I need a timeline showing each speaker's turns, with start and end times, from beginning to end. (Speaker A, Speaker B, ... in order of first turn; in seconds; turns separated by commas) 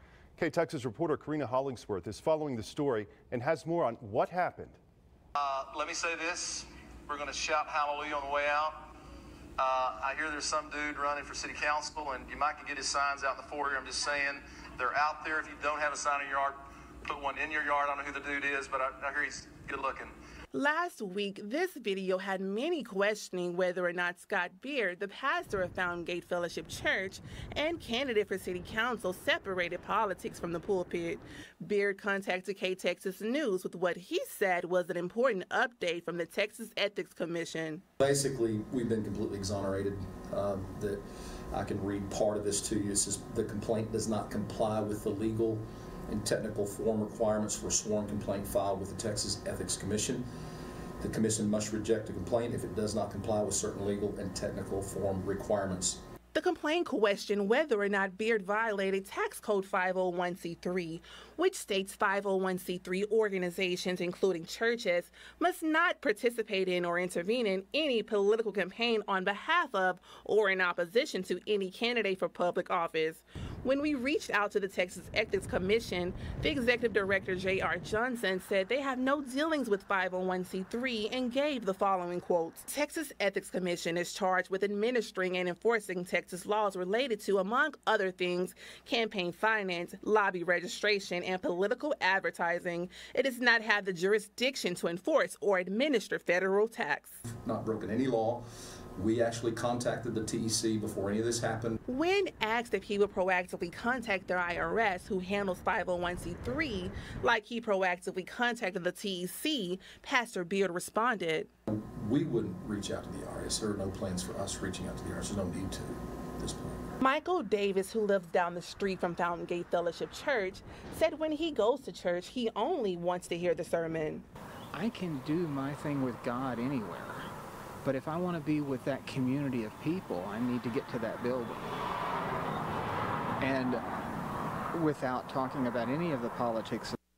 Speaker A: 0.4-4.8, Speaker B: 5.4-8.8, Speaker B: 9.6-20.1, Speaker C: 20.5-37.8, Speaker D: 38.0-50.2, Speaker D: 51.0-56.0, Speaker C: 56.3-97.2, Speaker D: 97.3-98.4, Speaker D: 99.0-101.8, Speaker C: 101.9-111.5, Speaker D: 111.7-116.9, Speaker C: 117.0-124.2, Speaker E: 124.7-127.3, Speaker E: 127.8-131.8, Speaker E: 133.4-133.8, Speaker E: 134.7-137.0